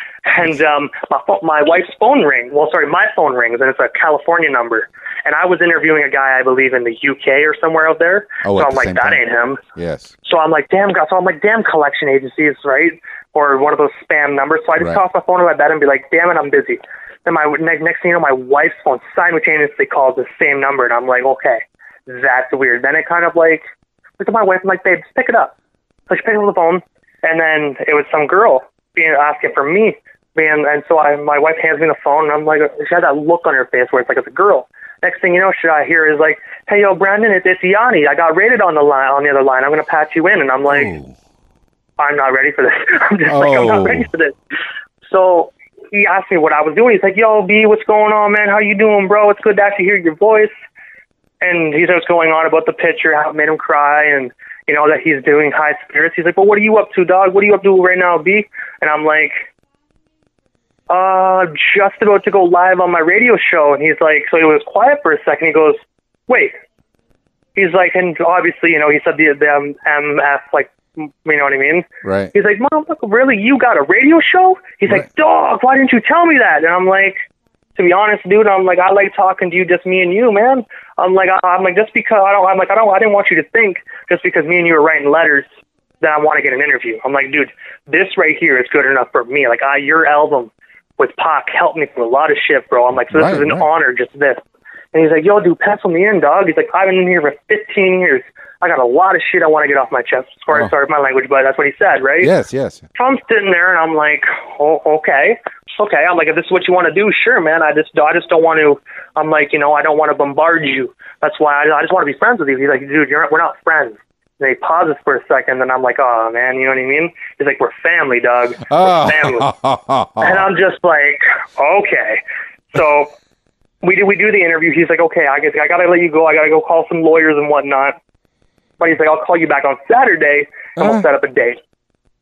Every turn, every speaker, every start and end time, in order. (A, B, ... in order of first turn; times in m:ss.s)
0:00.2-0:09.6 A
0:08.4-0:09.2 B
0:09.7-0:10.1 B
0:10.2-0:23.6 A
0:24.2-0:25.5 A
0:26.1-0:40.9 A
0:40.7-0:41.2 B
0:42.0-0:44.3 A
0:43.2-0:44.1 B
0:45.0-0:50.5 A
0:51.4-0:59.4 A
1:00.9-1:06.5 A
1:07.5-1:17.2 A
1:12.0-1:12.3 B
1:17.8-1:25.5 A
1:26.0-1:34.4 A
1:33.1-1:33.7 B
1:34.9-1:42.3 A
1:42.2-1:42.8 B
1:43.0-1:59.5 A
1:58.7-2:00.4 B
2:00.2-2:02.2 A
2:02.7-2:03.1 A
2:03.8-2:08.0 A
2:08.8-2:11.6 A
2:10.8-2:11.0 B